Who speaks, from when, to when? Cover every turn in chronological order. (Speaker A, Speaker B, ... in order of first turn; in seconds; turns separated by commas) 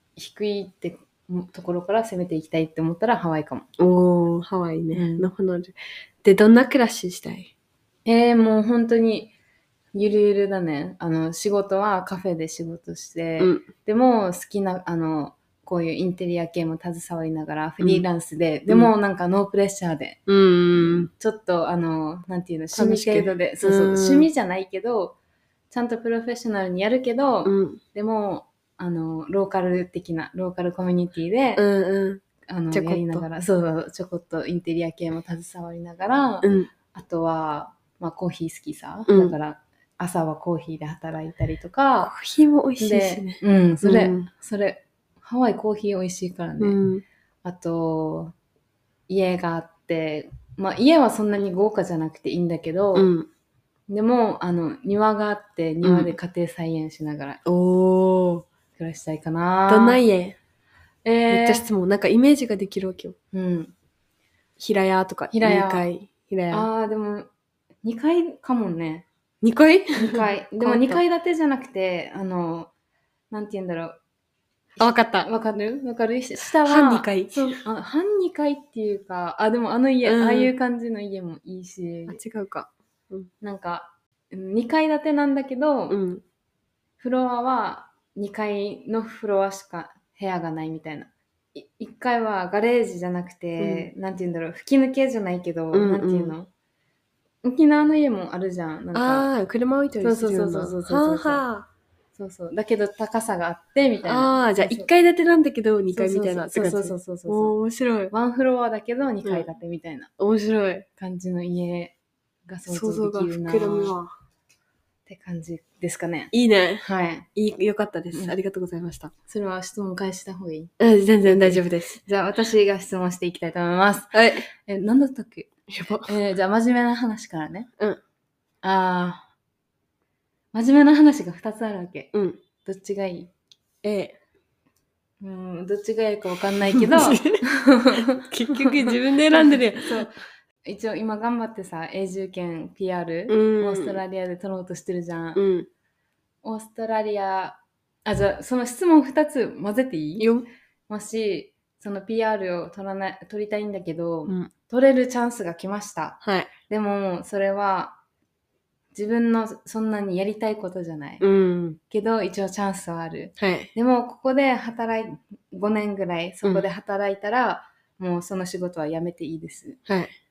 Speaker A: 0.2-3.7, Speaker B: 3.8-7.5, Speaker A: 4.9-5.3, Speaker A: 8.1-9.3, Speaker A: 9.9-20.2, Speaker B: 13.4-13.7, Speaker B: 17.8-18.1, Speaker B: 20.3-21.1, Speaker A: 20.7-25.2, Speaker B: 22.7-24.3, Speaker A: 25.7-31.6, Speaker B: 27.4-27.8, Speaker B: 31.6-33.3, Speaker A: 32.5-42.1, Speaker B: 36.4-36.7, Speaker B: 39.1-39.4, Speaker B: 42.0-44.3, Speaker A: 42.8-46.8, Speaker B: 46.6-47.0, Speaker A: 47.4-48.3, Speaker A: 49.1-53.1, Speaker B: 53.0-53.3, Speaker A: 53.9-57.4, Speaker B: 55.8-56.1, Speaker B: 57.5-58.5, Speaker A: 58.8-60.0, Speaker B: 59.7-60.4, Speaker A: 61.0-61.7, Speaker B: 61.3-63.2, Speaker A: 63.3-63.7, Speaker B: 64.6-66.7, Speaker A: 65.3-65.9, Speaker A: 66.5-67.3, Speaker A: 67.8-69.1, Speaker B: 69.4-71.0, Speaker A: 70.0-72.7, Speaker A: 73.3-74.0, Speaker B: 74.8-75.3, Speaker A: 74.8-82.2, Speaker B: 76.4-77.6, Speaker B: 80.0-80.5, Speaker B: 82.1-83.3, Speaker A: 83.4-86.0, Speaker B: 85.9-86.2, Speaker A: 87.0-96.5, Speaker B: 93.6-93.9, Speaker B: 95.7-96.4, Speaker A: 97.4-99.3, Speaker B: 98.9-101.7, Speaker A: 100.0-101.5, Speaker A: 102.2-104.9, Speaker B: 104.0-108.1, Speaker A: 105.9-107.5, Speaker A: 108.1-110.1, Speaker B: 109.2-109.5, Speaker B: 110.2-110.9, Speaker A: 111.0-112.0, Speaker A: 112.5-114.0, Speaker B: 112.7-114.1, Speaker A: 115.1-116.3, Speaker B: 116.3-119.1, Speaker A: 116.8-117.3, Speaker A: 119.3-120.7, Speaker B: 120.8-122.0, Speaker A: 121.2-125.5, Speaker B: 124.1-124.5, Speaker B: 125.7-126.1, Speaker A: 126.1-127.7, Speaker A: 128.6-129.3, Speaker A: 130.5-133.3, Speaker B: 132.1-132.4, Speaker B: 133.8-134.2, Speaker A: 135.2-145.4, Speaker B: 136.7-137.4, Speaker B: 137.9-140.1, Speaker B: 143.3-144.0, Speaker B: 145.3-145.7, Speaker A: 146.4-150.3, Speaker B: 150.2-150.5, Speaker A: 150.9-158.0, Speaker B: 156.2-156.5, Speaker A: 158.9-161.2, Speaker B: 161.2-161.8, Speaker A: 161.9-169.8, Speaker B: 163.4-163.7, Speaker B: 169.9-170.1